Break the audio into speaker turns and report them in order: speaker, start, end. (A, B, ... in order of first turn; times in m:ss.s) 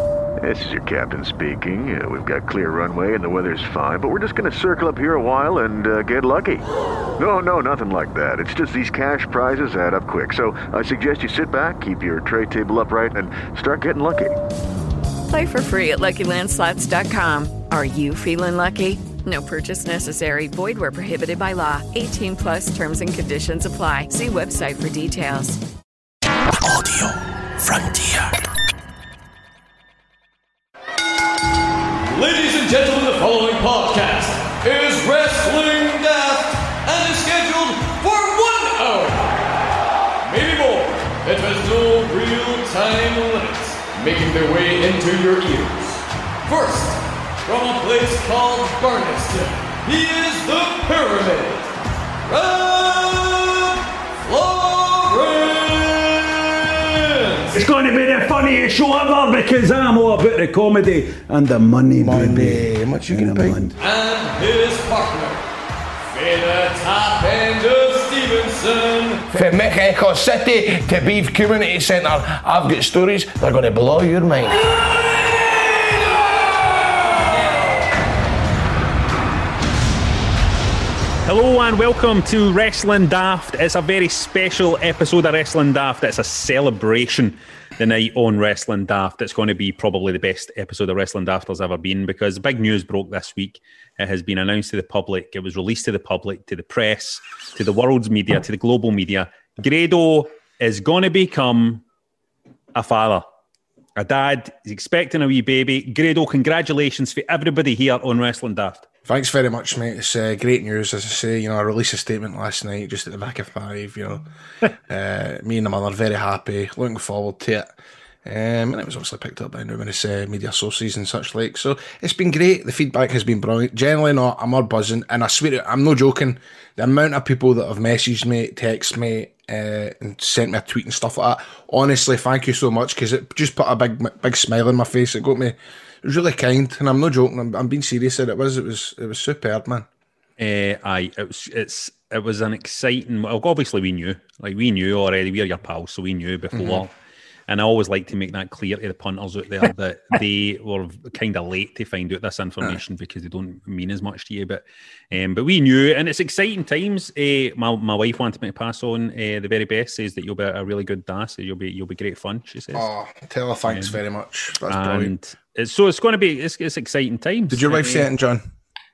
0:00.4-0:06.7 A
0:07.2-0:14.4 A
0:15.3-0:25.6 B
0:32.1-0:39.5 C
0:40.2-0:51.7 C
0:52.3-0:57.6 C
0:57.5-1:03.7 D
1:02.0-1:03.7 E
1:03.8-1:05.4 C
1:06.1-1:09.3 C
1:09.3-1:14.7 E
1:21.2-1:41.8 F
1:42.8-1:43.3 F
1:44.0-1:48.9 F
1:49.0-1:54.2 E
1:54.9-1:57.7 E
1:58.2-2:19.9 E
2:20.4-2:26.9 F
2:26.5-2:26.8 E
2:27.5-2:42.9 F
2:42.7-2:45.1 E
2:43.7-2:44.0 F
2:44.7-2:48.1 F
2:47.5-2:48.5 E